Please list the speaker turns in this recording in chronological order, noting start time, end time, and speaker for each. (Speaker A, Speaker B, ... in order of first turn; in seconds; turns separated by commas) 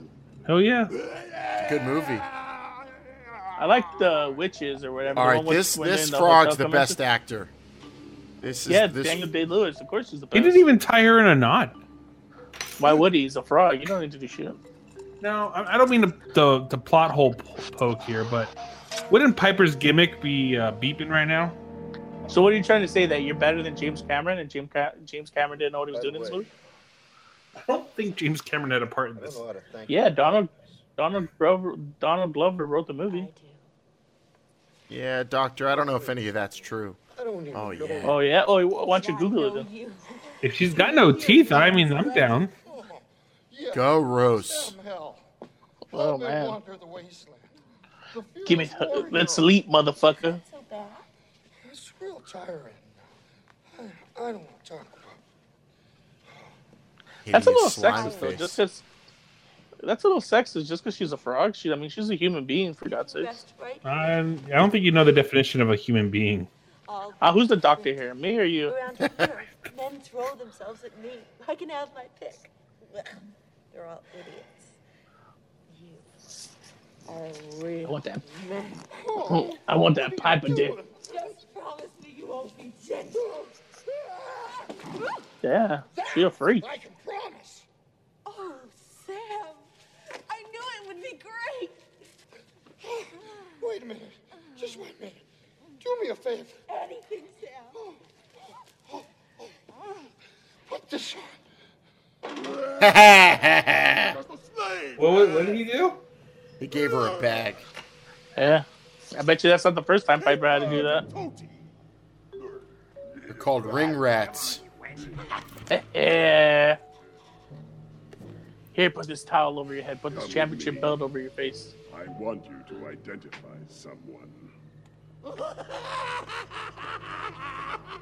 Speaker A: 0.5-0.9, Speaker B: 0.9-2.9, Speaker C: 1.6-2.2, Speaker D: 3.6-7.0, Speaker B: 3.6-4.3, Speaker C: 5.1-7.5, Speaker C: 8.4-9.3, Speaker D: 8.7-10.7, Speaker A: 10.3-11.8, Speaker D: 12.8-14.6, Speaker A: 15.2-18.5, Speaker A: 19.1-21.6, Speaker D: 22.3-26.5, Speaker E: 25.9-26.5, Speaker A: 27.6-29.4, Speaker E: 29.1-30.8, Speaker D: 29.9-33.3, Speaker F: 33.1-33.6, Speaker C: 34.9-37.0, Speaker E: 35.7-38.2, Speaker C: 37.5-38.2, Speaker D: 38.0-39.7, Speaker F: 38.9-42.7, Speaker A: 40.4-42.5, Speaker E: 42.7-45.2, Speaker C: 43.7-44.8, Speaker D: 45.9-46.6, Speaker E: 45.9-47.5, Speaker E: 48.1-49.6, Speaker D: 48.4-50.4, Speaker F: 50.4-51.0, Speaker E: 51.6-53.0, Speaker E: 53.7-55.2, Speaker C: 57.2-58.6, Speaker D: 57.3-58.8, Speaker F: 57.8-58.4, Speaker D: 59.8-63.4, Speaker F: 63.0-64.2, Speaker A: 63.8-66.5, Speaker F: 66.9-68.0, Speaker D: 67.2-68.8, Speaker F: 68.6-74.7, Speaker F: 75.7-76.3, Speaker F: 77.0-78.8, Speaker D: 77.8-78.2, Speaker E: 78.9-81.0, Speaker D: 79.3-80.8, Speaker F: 81.0-83.4, Speaker D: 85.4-86.7, Speaker E: 85.9-87.7, Speaker F: 88.2-89.6, Speaker F: 90.3-91.8, Speaker E: 93.6-95.2, Speaker F: 94.6-94.8, Speaker E: 95.8-96.6, Speaker F: 96.7-97.7, Speaker E: 98.9-99.5, Speaker E: 100.7-101.4, Speaker B: 102.4-103.4, Speaker C: 102.8-104.2, Speaker B: 104.0-105.6, Speaker A: 105.0-106.0, Speaker C: 106.6-107.6, Speaker D: 108.3-111.0, Speaker B: 110.2-111.6, Speaker B: 113.1-115.3, Speaker C: 113.3-114.6, Speaker D: 115.7-116.8, Speaker D: 118.7-121.7, Speaker B: 120.1-121.0, Speaker B: 121.9-124.5